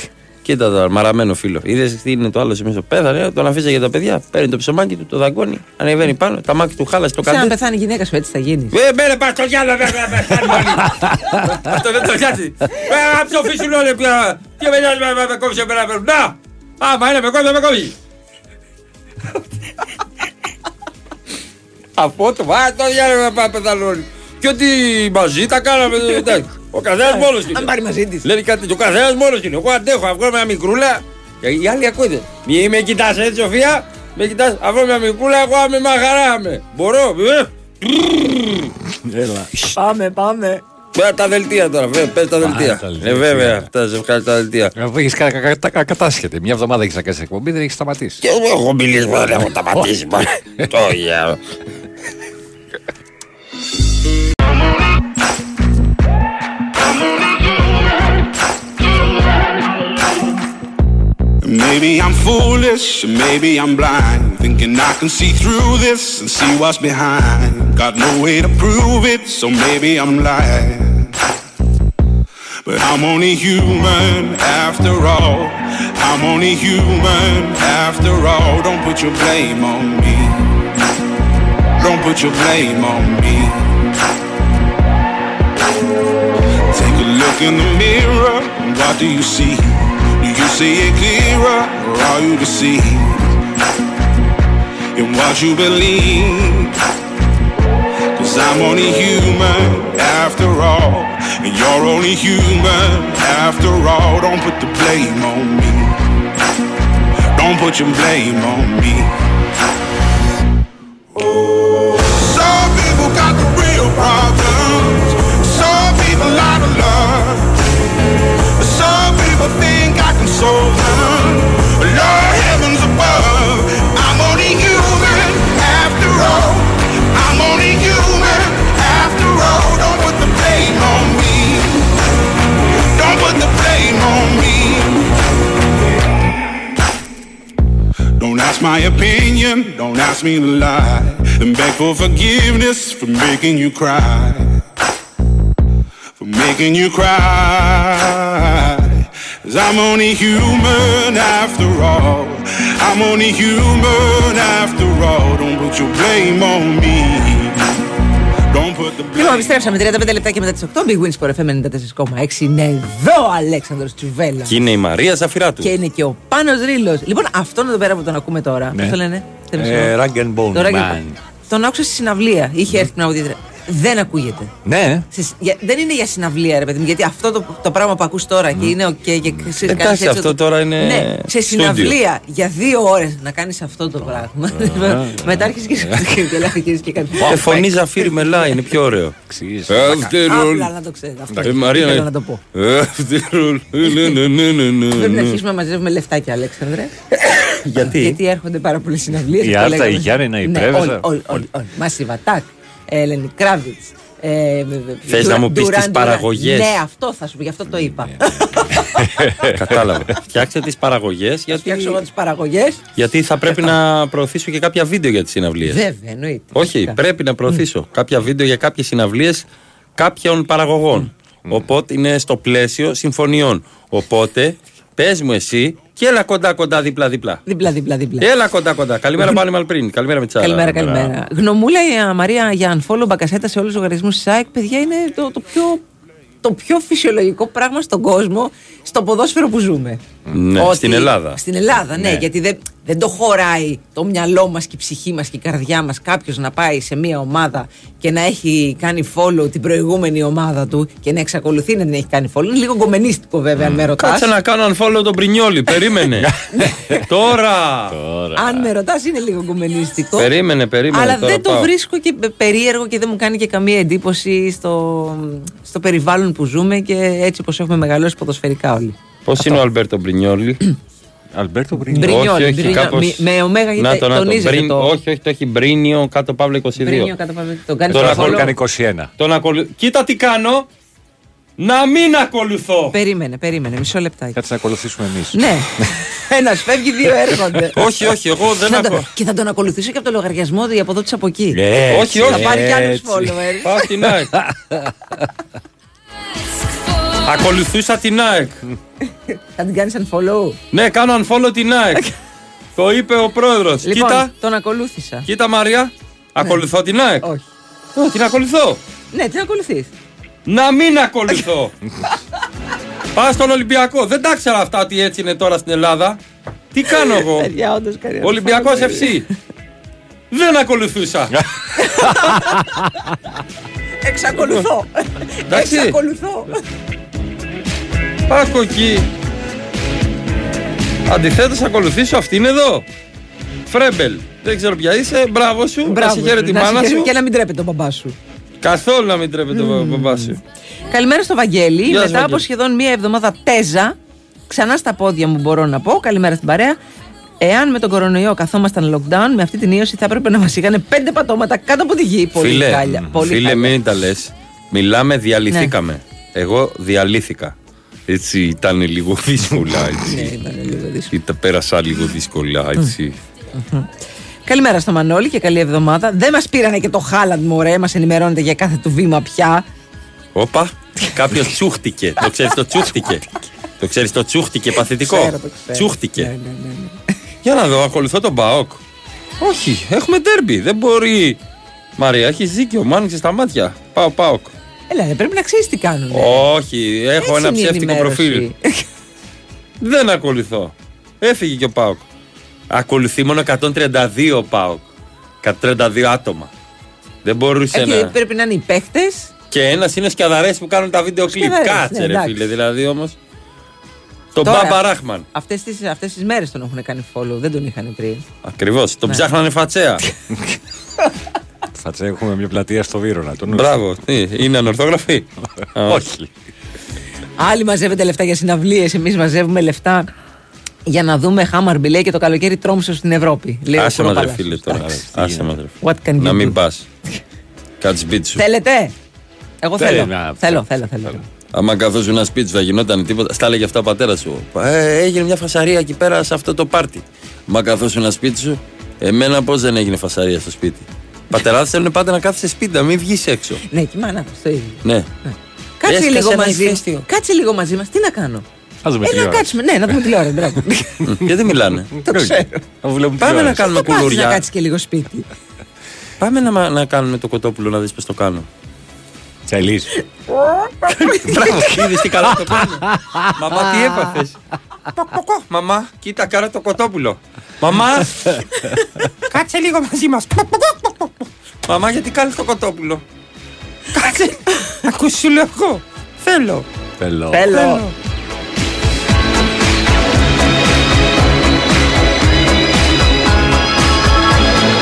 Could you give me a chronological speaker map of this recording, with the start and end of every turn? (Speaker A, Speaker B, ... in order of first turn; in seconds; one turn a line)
Speaker A: 0.4-7.5
Speaker B: 7.2-8.8
Speaker A: 8.7-17.9
Speaker A: 22.0-27.7
Speaker B: 27.2-28.2
Speaker A: 28.2-38.7
Speaker C: 39.1-39.5
Speaker B: 39.7-40.6
Speaker A: 40.9-44.7
Speaker C: 42.4-43.7
Speaker C: 44.8-48.2
Speaker A: 48.2-51.4
Speaker D: 61.4-71.1
Speaker D: 72.7-80.4
Speaker D: 81.8-83.7
Speaker D: 86.7-93.3
Speaker D: 95.0-96.8
Speaker D: 98.2-105.9
Speaker D: 107.3-109.1
Speaker D: 111.2-117.5
Speaker D: 118.6-131.8
Speaker D: 132.9-135.1
Speaker D: 138.2-144.6
Speaker D: 146.2-157.7
Speaker D: 158.5-159.6
Speaker B: 159.1-164.6
Speaker A: 164.4-165.7
Speaker B: 165.6-169.9
Speaker C: 169.6-171.2
Speaker B: 170.5-174.5
Speaker C: 174.6-175.0
Speaker B: 175.1-187.7
Speaker A: 179.6-182.0
Speaker C: 184.5-186.1
Speaker A: 187.2-190.7
Speaker C: 189.3-190.1
Speaker B: 190.2-192.4
Speaker A: 191.4-195.4
Speaker B: 194.9-196.9
Speaker A: 197.1-198.2
Speaker B: 197.9-209.5
Speaker C: 199.4-201.4
Speaker A: 205.1-206.7
Speaker C: 208.0-209.7
Speaker A: 209.5-212.0
Speaker B: 211.5-212.8
Speaker A: 212.9-215.8
Speaker B: 215.6-217.0
Speaker A: 216.5-219.4
Speaker A: 220.0-227.4
Speaker B: 227.5-228.3
Speaker A: 228.2-231.1
Speaker B: 230.4-235.8
Speaker B: 236.4-240.0
Speaker A: 240.3-241.4
Speaker B: 240.6-254.3
Speaker C: 242.0-242.2
Speaker A: 254.0-256.3
Speaker C: 256.2-257.0
Speaker A: 257.0-257.9
Speaker C: 257.9-258.7
Speaker B: 258.4-260.3
Speaker A: 260.2-261.7
Speaker B: 260.9-269.6
Speaker A: 269.3-270.6
Speaker C: 271.3-272.9
Speaker B: 271.9-274.9
Speaker A: 272.0-277.1
Speaker B: 276.8-278.5
Speaker C: 277.9-279.1
Speaker A: 277.9-278.6
Speaker A: 279.2-280.7
Speaker A: 281.6-282.9
Speaker B: 282.9-284.4
Speaker C: 284.3-285.4
Speaker B: 285.3-287.8
Speaker A: 287.8-289.1
Speaker B: 288.6-291.6
Speaker C: 291.6-292.9
Speaker A: 291.9-294.3
Speaker B: 292.1-293.7
Speaker C: 294.3-294.9
Speaker A: 297.2-298.6
Speaker B: 299.3-300.6
Speaker A: 300.7-302.0
Speaker A: 302.8-304.3
Speaker B: 303.8-305.3
Speaker A: 305.3-307.2
Speaker A: 307.9-308.8
Speaker B: 309.1-309.9
Speaker A: 310.5-311.7
Speaker A: 313.1-316.2
Speaker A: 316.7-317.5
Speaker B: 317.3-319.1
Speaker A: 318.2-319.2
Speaker A: 320.3-321.4
Speaker C: 321.4-322.9
Speaker B: 321.8-322.6
Speaker B: 324.0-326.6
Speaker A: 324.4-324.6
Speaker A: 325.5-326.0
Speaker A: 328.3-329.1
Speaker A: 331.1-332.8
Speaker A: 333.7-337.1
Speaker B: 335.9-338.1
Speaker A: 338.6-340.4
Speaker B: 339.5-340.3
Speaker B: 340.9-343.9
Speaker A: 341.9-342.4
Speaker B: 344.5-346.8
Speaker B: 347.4-353.7
Speaker A: 352.4-357.5
Speaker A: 358.1-360.3
Speaker B: 360.1-361.1
Speaker A: 361.1-363.2
Speaker B: 363.6-363.9
Speaker B: 364.5-369.6
Speaker A: 370.3-373.2
Speaker A: 373.8-376.3
Speaker B: 375.0-377.0
Speaker A: 377.4-378.8
Speaker A: 379.4-381.4
Speaker A: 382.0-384.5
Speaker B: 384.9-386.5
Speaker A: 386.1-388.4
Speaker B: 387.2-388.8
Speaker A: 389.8-392.0
Speaker A: 392.7-394.9
Speaker A: 395.4-396.5
Speaker A: 397.2-398.1
Speaker B: 397.7-399.3
Speaker A: 399.5-403.1
Speaker B: 401.3-402.4
Speaker A: 404.3-405.2
Speaker B: 404.4-404.8
Speaker B: 405.3-408.2
Speaker A: 408.4-410.0
Speaker C: 411.7-413.8
Speaker A: 413.5-416.1
Speaker C: 415.9-416.3
Speaker B: 417.4-420.1
Speaker B: 420.9-424.8
Speaker A: 423.7-426.9
Speaker C: 424.7-425.5
Speaker B: 425.8-426.6
Speaker A: 427.8-428.4
Speaker B: 428.4-428.9
Speaker B: 429.6-431.2
Speaker C: 429.8-431.2
Speaker A: 431.5-443.6
Speaker B: 443.7-448.4
Speaker A: 445.9-447.0
Speaker C: 448.8-449.9
Speaker B: 449.0-451.0
Speaker A: 451.1-451.9
Speaker C: 452.0-453.7
Speaker B: 452.0-452.6
Speaker A: 453.2-454.4
Speaker B: 453.6-455.3
Speaker A: 456.2-458.5
Speaker C: 459.5-459.9
Speaker B: 460.3-461.8
Speaker A: 461.1-462.8
Speaker C: 462.3-463.4
Speaker A: 463.4-464.4
Speaker A: 465.0-468.4
Speaker A: 469.3-471.1
Speaker A: 471.6-473.0
Speaker A: 473.9-476.6
Speaker B: 474.1-474.8
Speaker C: 477.0-477.6
Speaker B: 477.3-477.8
Speaker A: 477.4-477.9